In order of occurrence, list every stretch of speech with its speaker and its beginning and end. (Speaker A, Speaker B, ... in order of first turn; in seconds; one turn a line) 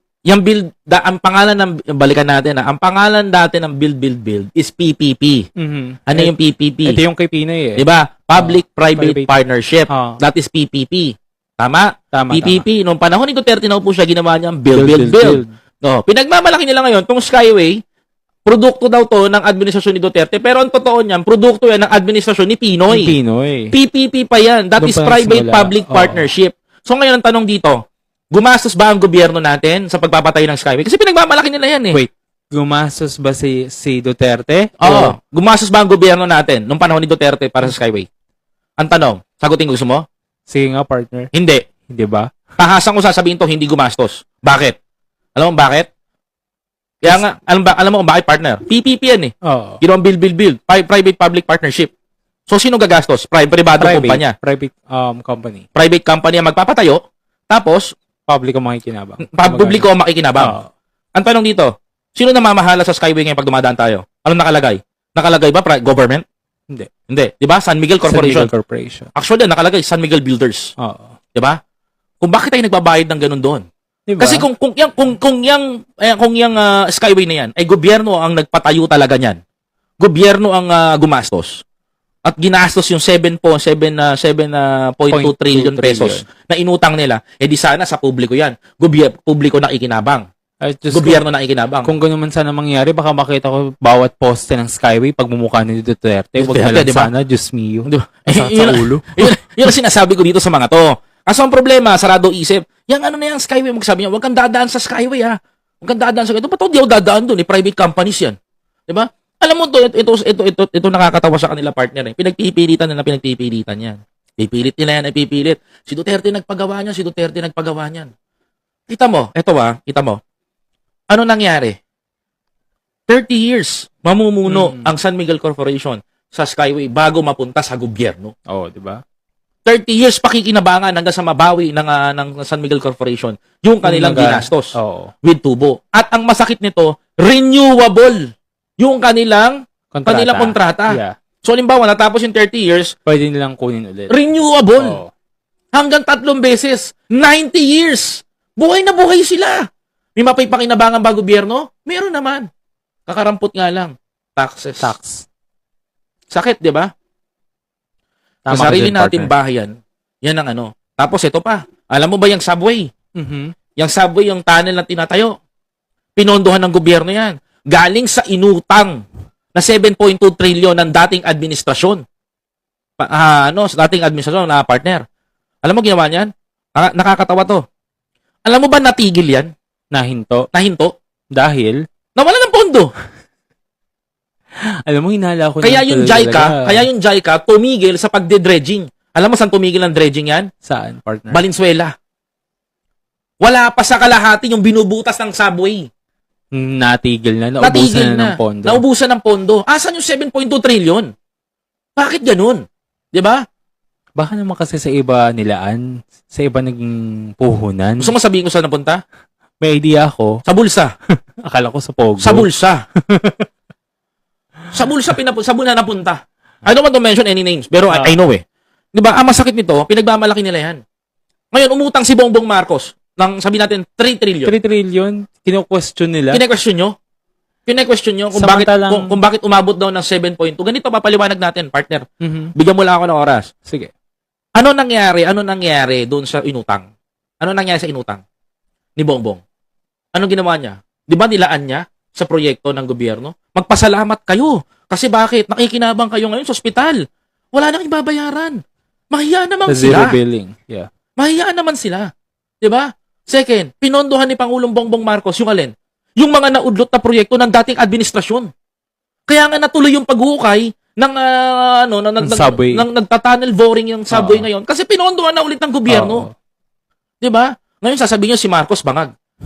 Speaker A: 0.3-5.5
Speaker B: 5.6-6.3
Speaker A: 6.1-7.0
Speaker B: 6.8-7.8
Speaker A: 7.8-17.8
Speaker B: 8.3-9.3
Speaker B: 9.9-10.2
Speaker B: 12.1-12.6
Speaker B: 14.7-15.5
Speaker A: 18.4-23.1
Speaker B: 22.9-23.7
Speaker A: 23.7-27.8
Speaker B: 24.8-26.3
Speaker A: 28.3-32.0
Speaker B: 31.9-35.1
Speaker A: 34.8-38.1
Speaker A: 38.8-40.0
Speaker B: 40.5-41.3
Speaker A: 41.3-41.6
Speaker B: 41.9-42.3
Speaker A: 42.6-44.8
Speaker A: 45.4-45.9
Speaker A: 47.0-51.9
Speaker B: 49.4-49.8
Speaker A: 52.5-54.3
Speaker B: 53.7-55.6
Speaker A: 55.7-57.9
Speaker B: 58.3-59.9
Speaker A: 59.3-60.5
Speaker B: 60.4-60.7
Speaker A: 61.1-66.2
Speaker A: 67.1-68.5
Speaker B: 68.0-69.1
Speaker A: 69.1-70.7
Speaker B: 70.8-71.2
Speaker A: 72.2-73.6
Speaker B: 74.1-74.5
Speaker A: 74.2-79.4
Speaker A: 80.0-81.6
Speaker A: 82.2-90.2
Speaker B: 85.1-86.2
Speaker B: 90.6-91.2
Speaker A: 90.9-91.9
Speaker B: 91.8-99.3
Speaker A: 96.3-97.1
Speaker A: 97.8-108.3
Speaker A: 108.9-118.1
Speaker A: 118.9-120.2
Speaker A: 121.1-121.8
Speaker A: 123.1-128.3
Speaker B: 124.5-124.9
Speaker B: 128.5-129.0
Speaker A: 129.7-138.3
Speaker B: 133.8-135.1
Speaker A: 138.8-142.9
Speaker B: 139.9-141.1
Speaker B: 143.1-144.1
Speaker A: 144.1-145.0
Speaker B: 144.8-145.1
Speaker A: 145.7-149.7
Speaker A: 150.2-152.5
Speaker A: 153.1-154.9
Speaker B: 154.8-155.2
Speaker A: 156.3-156.9
Speaker B: 158.4-159.3
Speaker A: 158.5-162.9
Speaker B: 163.2-163.5
Speaker A: 163.8-165.4
Speaker A: 166.2-169.0
Speaker A: 169.5-172.0
Speaker A: 173.0-175.0
Speaker A: 175.6-177.6
Speaker A: 178.4-179.5
Speaker B: 179.9-180.5
Speaker A: 180.5-180.9
Speaker B: 181.3-181.8
Speaker A: 182.2-182.9
Speaker B: 184.8-186.9
Speaker A: 185.6-190.5
Speaker B: 190.6-191.4
Speaker A: 191.3-191.9
Speaker A: 193.4-195.9
Speaker B: 196.5-198.8
Speaker A: 197.6-201.1
Speaker A: 201.9-203.4
Speaker B: 204.2-208.1
Speaker A: 208.0-209.0
Speaker B: 209.6-210.4
Speaker A: 210.4-210.9
Speaker B: 211.4-212.5
Speaker A: 212.2-212.8
Speaker B: 213.1-213.4
Speaker A: 214.7-218.4
Speaker A: 218.9-220.8
Speaker A: 221.5-224.5
Speaker B: 224.4-226.4
Speaker A: 226.3-226.9
Speaker A: 227.7-232.0
Speaker B: 228.3-229.2
Speaker B: 232.2-232.5
Speaker A: 232.6-233.5
Speaker B: 233.7-233.9
Speaker A: 234.6-236.9
Speaker A: 237.4-238.2
Speaker A: 239.0-239.4
Speaker A: 240.1-248.6
Speaker A: 249.1-250.2
Speaker B: 249.7-250.9
Speaker A: 251.2-252.1
Speaker A: 252.6-258.5
Speaker A: 259.3-266.2
Speaker B: 262.2-262.8
Speaker B: 264.1-264.4
Speaker B: 265.9-266.3
Speaker A: 267.2-269.1